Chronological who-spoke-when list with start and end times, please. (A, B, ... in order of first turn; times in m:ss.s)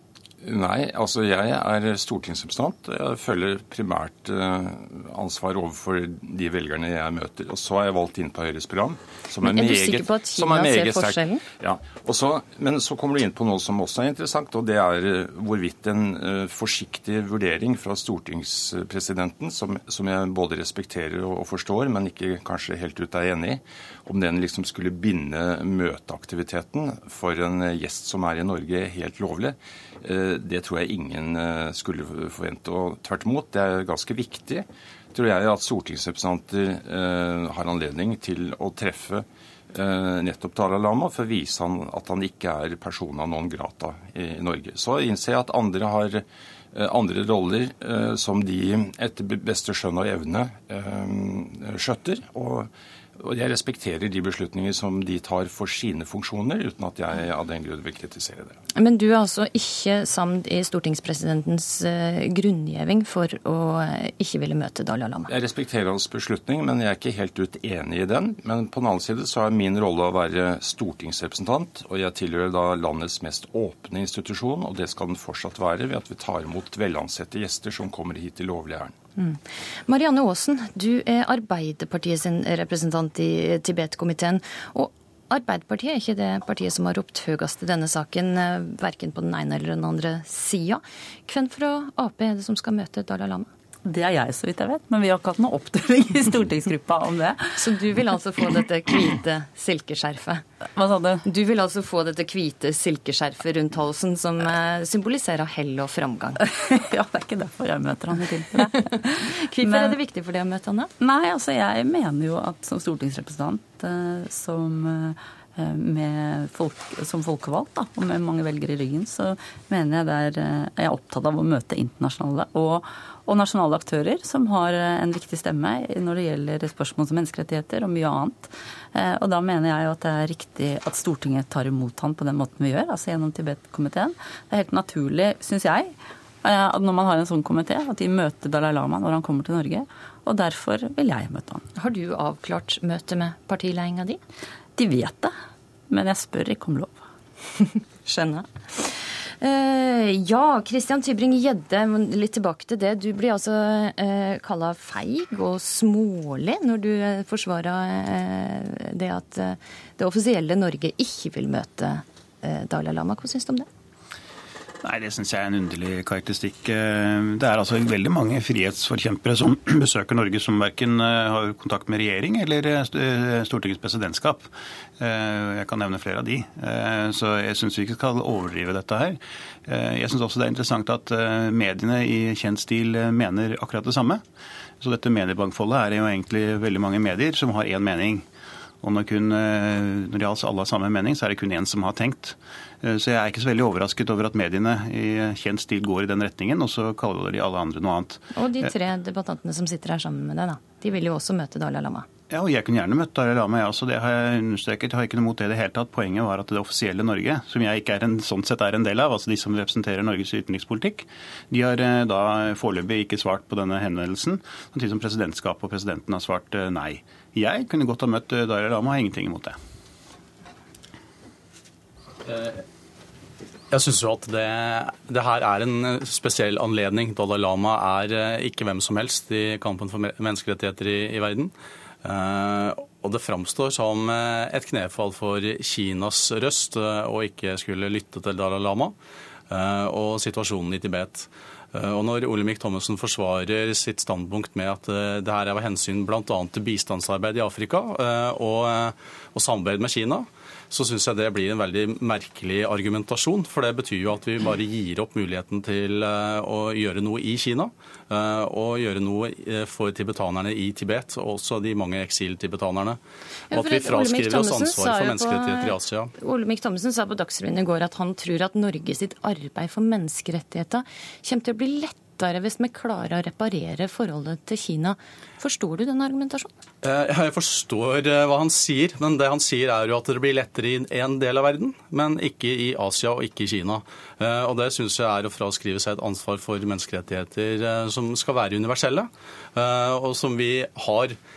0:00.4-0:58.6 A
0:09.4-0:11.4 B
0:58.8-1:05.3 B
1:05.3-1:18.9 A
1:19.2-1:33.5 B
1:33.8-1:38.0 C
1:37.6-1:40.4 B
1:40.8-1:41.2 C
1:41.2-1:46.4 B
1:46.9-1:48.7 C
1:48.4-1:50.9 B
1:49.6-1:49.9 C
1:51.0-2:21.6 C
2:21.8-2:24.2 B
2:24.8-2:25.3 C
2:25.9-2:27.0 C
2:28.0-2:43.7 B
2:44.9-2:54.5 D
2:55.0-3:04.2 D
3:04.8-3:08.2 D
3:08.8-3:18.2 D
3:18.3-3:22.0 B
3:22.3-3:39.5 D
3:42.2-3:42.6 E
3:43.7-3:51.5 E
3:52.0-3:58.9 E
3:59.5-4:23.0 E
4:23.5-4:36.5 B
4:23.5-4:26.1 E
4:36.8-4:51.2 E